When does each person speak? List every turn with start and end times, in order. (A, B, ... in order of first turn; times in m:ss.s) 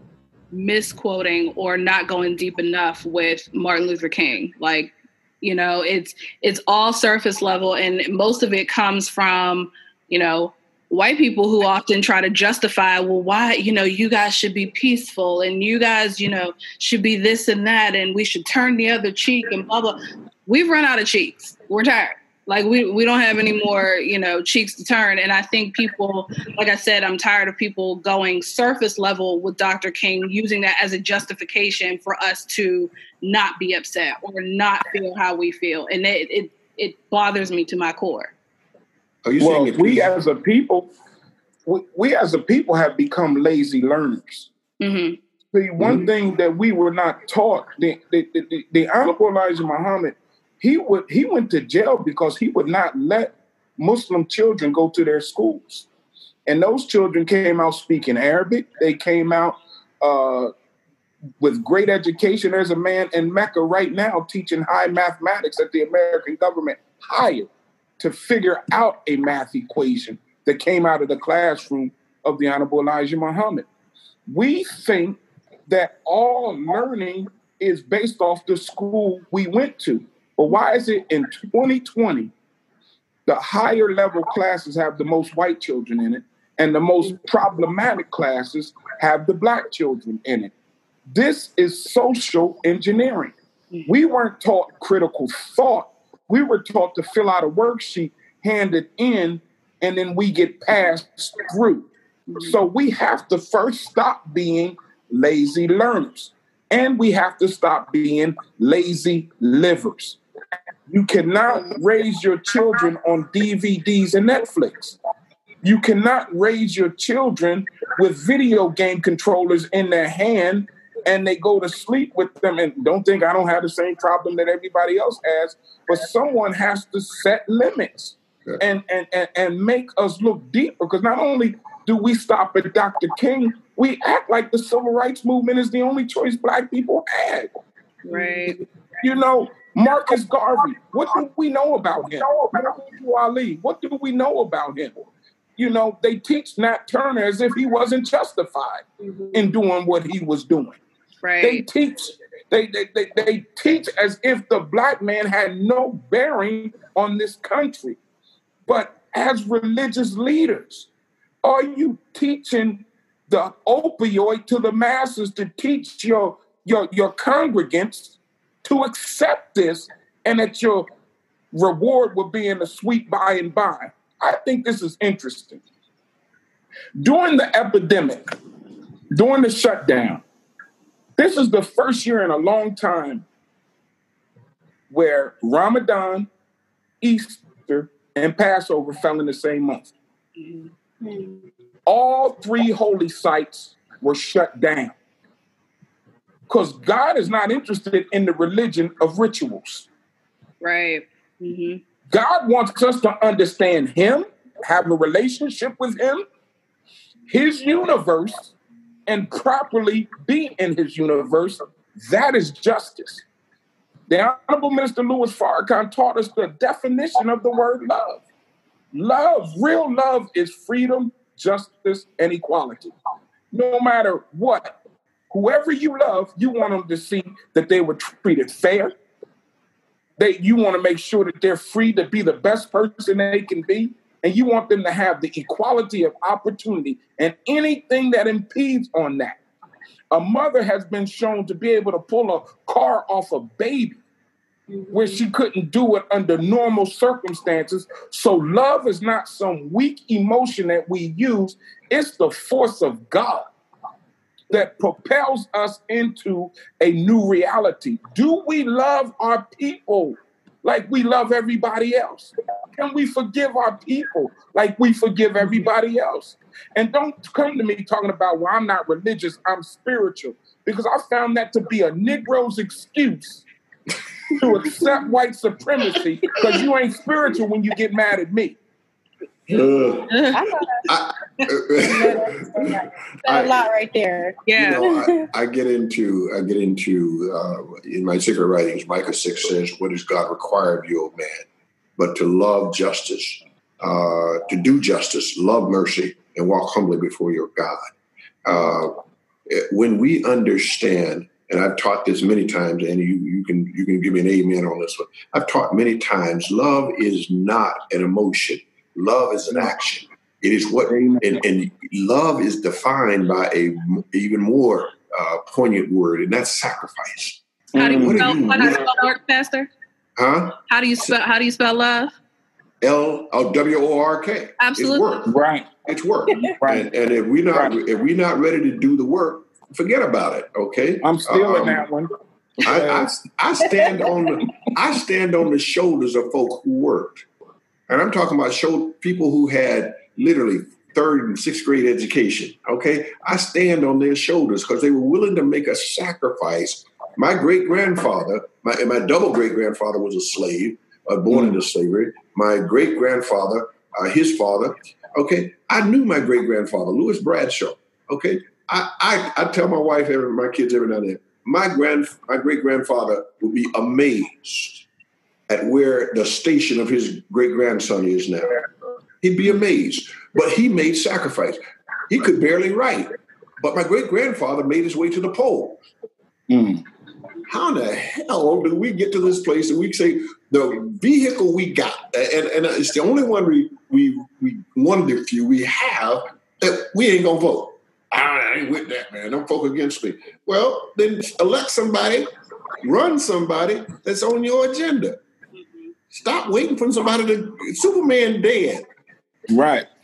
0:00.5-0:38.3 A
0:39.2-0:40.1 B
0:39.4-0:40.9 C
0:41.6-0:44.5 C
0:44.8-0:45.2 A
0:45.5-0:55.9 C
0:45.8-0:46.1 B
0:56.5-1:00.5 C
1:01.4-1:13.6 C
1:14.3-1:22.3 C
1:23.2-1:30.5 C
1:31.1-1:33.4 C
1:33.9-1:50.2 C
1:42.3-1:42.6 A
1:50.9-1:55.0 C
1:55.6-2:17.5 C
2:18.1-2:18.6 A
2:19.0-2:25.0 C
2:25.6-2:30.8 C
2:29.0-2:29.4 D
2:31.2-2:31.6 A
2:31.4-2:38.0 C
2:38.7-2:40.9 C
2:41.4-2:50.9 C
2:51.5-2:55.6 C
2:57.0-2:58.2 C
2:59.1-3:00.2 C
3:01.2-3:03.2 C
3:04.9-3:06.3 C
3:07.0-3:09.9 C
3:10.4-3:10.7 A
3:11.0-3:11.4 D
3:11.9-3:14.9 C
3:16.5-3:19.9 C
3:20.6-3:21.8 A
3:22.1-3:26.2 C
3:27.3-3:28.5 C
3:29.1-3:33.2 C
3:34.1-3:38.2 C
3:38.9-3:42.9 C
3:43.5-3:44.8 C
3:45.3-3:48.9 C
3:50.2-3:59.4 C
4:00.1-4:04.0 C
4:04.7-4:05.2 D
4:04.9-4:13.5 C
4:14.5-4:33.4 C
4:34.4-4:38.6 C
4:39.5-4:40.2 B
4:40.1-4:40.4 A
4:40.3-4:40.8 D
4:40.9-4:42.7 B
4:41.8-4:45.2 D
4:43.2-4:43.6 B
4:44.4-4:44.9 A
4:44.6-4:51.4 B
4:52.0-4:57.8 B
4:58.4-5:18.9 B
5:10.9-5:11.4 C
5:17.7-5:18.3 C
5:17.8-5:19.7 A
5:20.2-5:21.2 B
5:20.7-5:22.1 A
5:22.8-5:25.3 B
5:24.6-5:25.1 A
5:25.2-5:25.7 C
5:25.9-5:31.8 B
5:26.6-5:26.9 C
5:31.0-5:33.1 C
5:32.6-5:37.2 B
5:37.9-6:04.9 B
6:05.5-6:08.6 B
6:09.2-6:15.8 B
6:16.5-6:16.8 C
6:17.5-6:32.3 B
6:32.8-6:35.2 B
6:36.1-6:38.9 B
6:39.5-6:39.9 C